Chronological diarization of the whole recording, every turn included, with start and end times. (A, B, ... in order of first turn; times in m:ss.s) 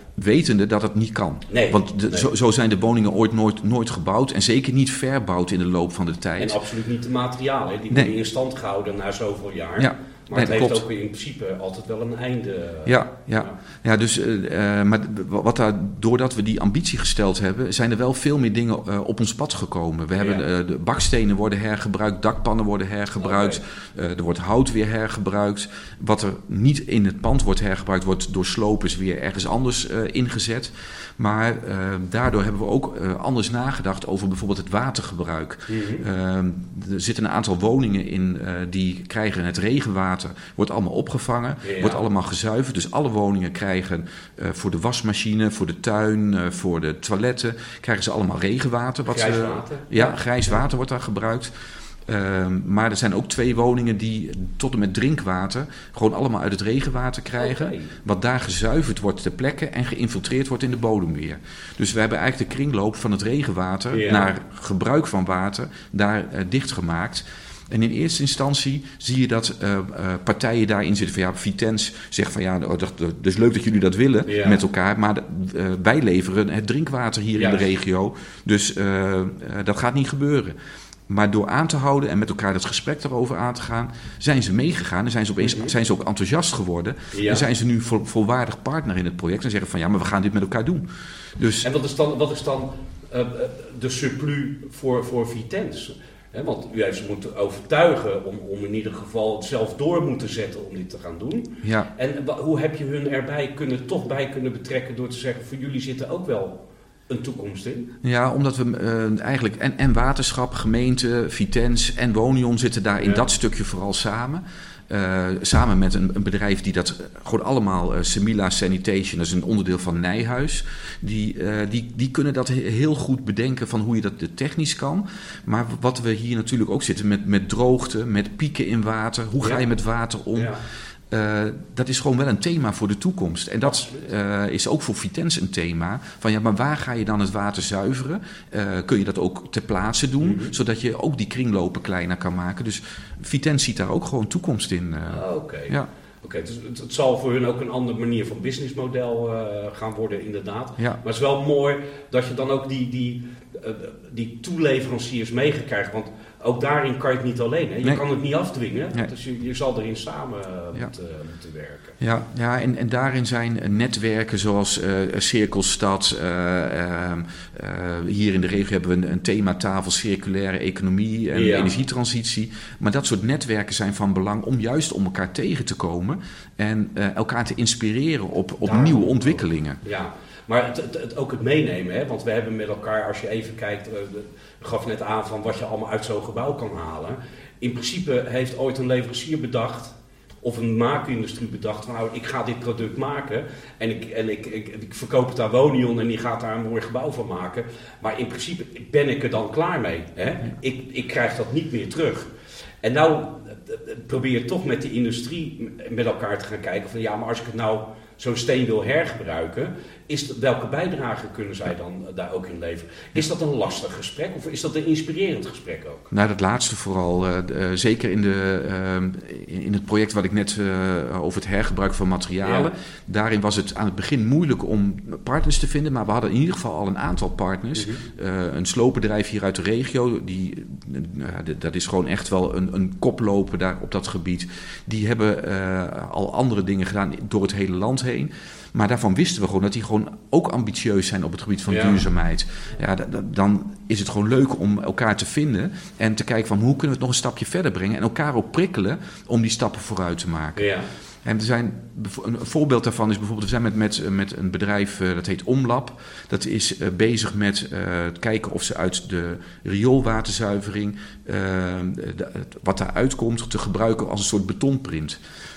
0:00.2-0:06.6 A
0:01.5-0:02.3 B
0:06.4-0:13.6 B
0:09.8-0:10.8 A
0:12.8-0:51.5 A
0:20.2-0:20.4 B
0:23.2-0:23.6 B
0:35.7-0:36.1 B
0:41.6-0:42.0 B
0:49.1-0:50.6 B
0:52.1-1:20.6 A
0:57.4-0:58.0 B
1:03.9-1:04.3 B
1:14.3-1:14.6 B
1:17.4-1:17.6 B
1:21.1-1:30.9 A
1:25.4-1:25.7 B
1:27.1-1:27.4 B
1:31.4-1:31.7 A
1:31.6-1:46.6 B
1:41.6-1:41.9 A
1:47.1-1:47.9 B
1:48.0-2:10.5 A
1:53.0-1:53.2 B
2:09.4-2:09.6 B
2:10.4-2:10.6 B
2:11.1-2:25.9 A
2:13.6-2:14.0 B
2:20.2-2:20.5 B
2:25.1-2:42.0 B
2:42.0-2:59.8 A
2:51.3-2:51.7 B
2:58.6-3:22.3 B
3:22.8-3:36.1 B
3:36.1-4:10.7 A
3:42.4-3:42.7 B
3:47.8-3:48.0 B
4:01.7-4:02.0 B
4:10.6-4:10.9 B
4:11.2-4:25.2 A